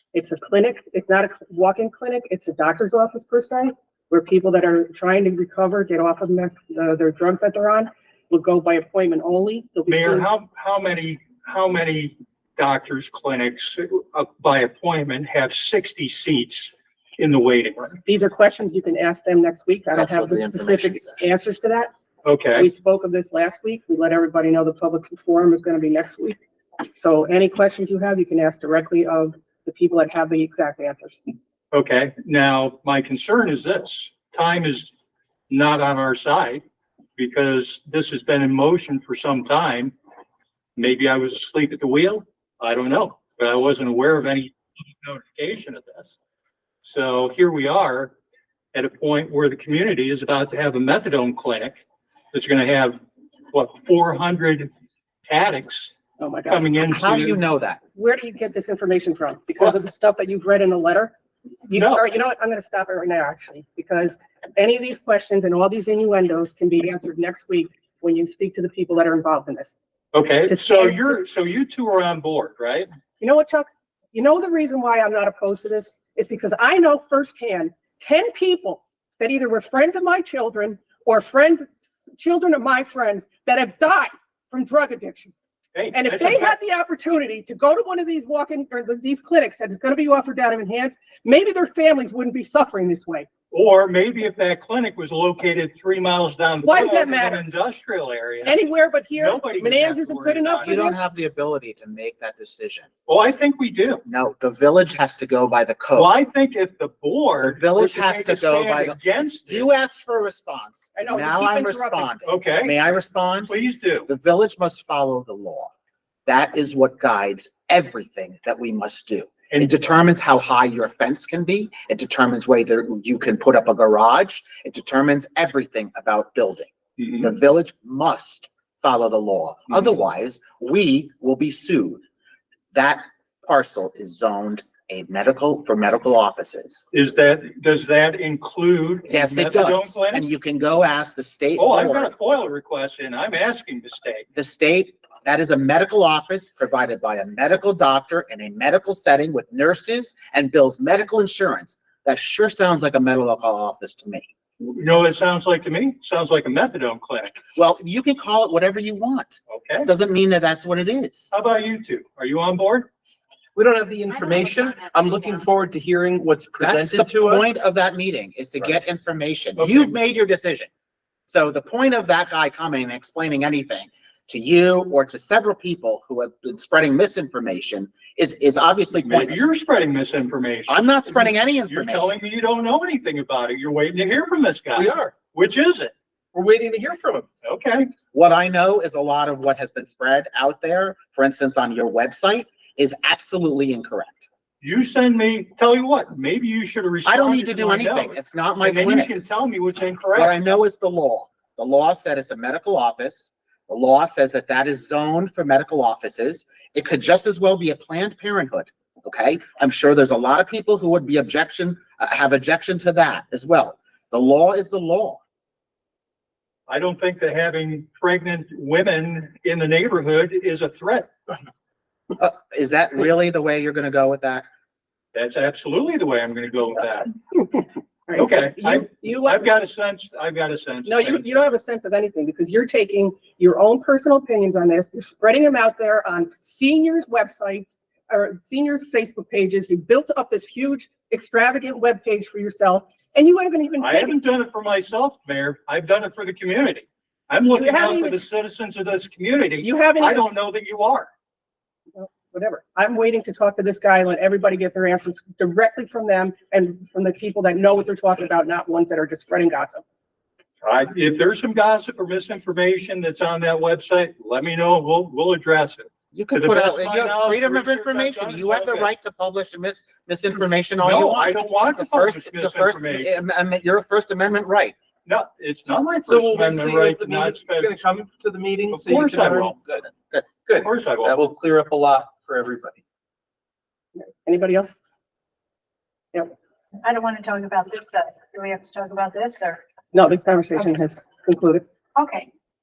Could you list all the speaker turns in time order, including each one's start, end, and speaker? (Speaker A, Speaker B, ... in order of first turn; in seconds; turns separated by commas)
Speaker A: 0.1-10.3, Speaker B: 9.9-18.0, Speaker A: 18.1-21.9, Speaker C: 19.9-21.3, Speaker B: 22.2-22.7, Speaker A: 22.6-26.4, Speaker A: 27.0-31.2, Speaker B: 31.7-34.9, Speaker B: 35.5-36.6, Speaker B: 37.2-39.9, Speaker B: 40.8-46.1, Speaker B: 46.8-48.1, Speaker B: 48.7-51.8, Speaker B: 52.3-53.0, Speaker B: 53.5-54.7, Speaker B: 55.3-55.9, Speaker A: 56.2-56.6, Speaker B: 56.5-57.4, Speaker C: 56.9-57.8, Speaker A: 58.0-61.1, Speaker A: 61.7-69.7, Speaker B: 61.7-62.0, Speaker B: 70.1-72.9, Speaker A: 70.5-71.2, Speaker A: 73.2-85.3, Speaker B: 85.8-86.5, Speaker A: 85.9-93.3, Speaker B: 93.5-98.6, Speaker A: 96.6-97.4, Speaker A: 98.5-101.0, Speaker B: 99.2-101.0, Speaker C: 100.6-102.9, Speaker B: 103.1-104.0, Speaker C: 104.0-106.1, Speaker B: 105.9-109.7, Speaker C: 107.4-113.5, Speaker A: 111.0-112.1, Speaker B: 112.2-112.8, Speaker B: 113.5-114.1, Speaker C: 114.1-115.7, Speaker C: 116.3-132.0, Speaker B: 119.5-119.8, Speaker C: 132.7-136.8, Speaker B: 136.9-140.3, Speaker C: 139.1-142.1, Speaker B: 141.6-144.2, Speaker C: 144.3-154.3, Speaker B: 154.6-157.4, Speaker C: 157.6-161.3, Speaker B: 159.5-159.9, Speaker B: 161.3-162.9, Speaker D: 163.6-167.4, Speaker C: 166.6-170.7, Speaker C: 171.3-179.4, Speaker B: 179.0-185.9, Speaker C: 180.7-182.1, Speaker D: 184.8-185.2, Speaker D: 186.3-187.3, Speaker B: 187.4-187.9, Speaker C: 188.1-194.3, Speaker B: 194.6-200.3, Speaker C: 197.1-199.2, Speaker C: 200.1-215.2, Speaker B: 216.7-221.1, Speaker C: 222.2-224.4, Speaker B: 225.1-227.1, Speaker A: 228.1-229.5, Speaker B: 228.2-231.3, Speaker A: 230.9-244.2, Speaker B: 243.8-251.1, Speaker A: 247.5-248.2, Speaker A: 249.6-250.3, Speaker A: 251.9-259.8, Speaker B: 260.6-268.9, Speaker C: 266.1-274.8, Speaker B: 270.8-273.1, Speaker B: 275.1-277.8, Speaker D: 276.1-279.9, Speaker B: 278.7-279.6, Speaker D: 280.4-282.8, Speaker B: 280.6-281.2, Speaker A: 284.0-284.7, Speaker E: 286.8-289.6, Speaker A: 289.9-291.6, Speaker E: 292.0-292.3